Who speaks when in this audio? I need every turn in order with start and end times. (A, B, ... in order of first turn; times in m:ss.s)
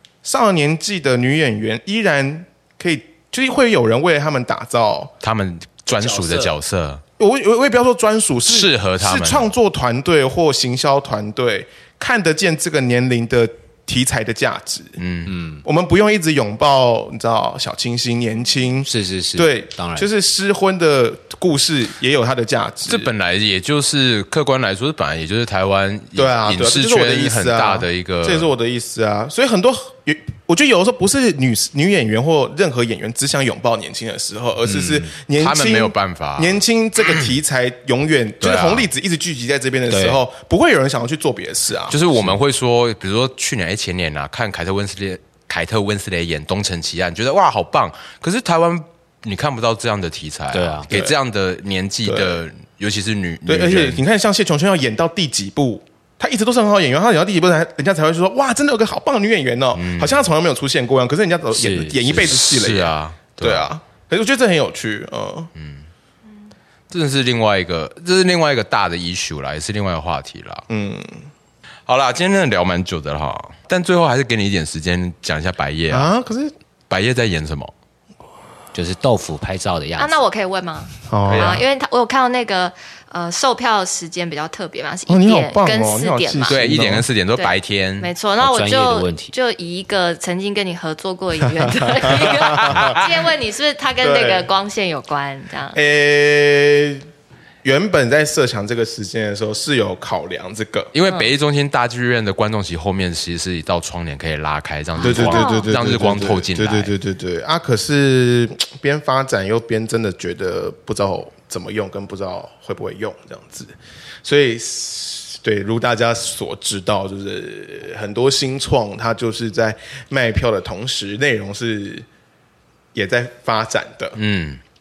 0:00.2-0:05.1 A
0:05.2-0:07.0 B
0:06.0-0:06.5 C
0:07.2-0:15.0 A
0:08.5-0:09.5 B
0:15.0-0:15.3 B
0:15.3-0:15.6 C
0:15.6-0:23.1 A
0:18.8-0:20.1 C
0:22.9-0:28.5 B
0:26.2-0:42.1 A
0:34.6-0:35.1 C
0:35.4-0:36.6 B
0:38.4-0:38.9 B
0:39.9-0:40.2 C
0:41.9-0:54.0 B
0:50.5-0:50.9 C
0:50.9-0:51.2 A
0:52.0-0:52.4 A
0:53.4-1:05.5 A
0:59.7-1:00.2 B
1:01.5-1:02.3 C
1:02.1-1:03.7 B
1:05.6-1:05.9 B
1:06.9-1:10.6 B
1:10.7-1:11.3 A
1:11.9-1:16.1 B
1:15.9-1:16.5 A
1:16.9-1:17.7 B
1:18.7-1:20.2 C
1:20.0-1:26.6 D
1:21.0-1:21.6 A
1:21.3-1:21.6 B
1:25.1-1:27.1 A
1:26.5-1:28.1 B
1:27.4-1:35.8 D
1:28.4-1:29.3 C
1:31.6-1:33.0 A
1:32.2-1:33.0 B
1:34.0-1:34.5 A
1:35.7-1:37.1 A
1:37.6-1:40.9 A
1:40.9-1:46.9 B
1:41.1-1:41.3 D
1:45.0-2:02.1 A
1:45.1-1:45.7 D
2:02.9-2:04.2 A
2:04.2-2:04.6 B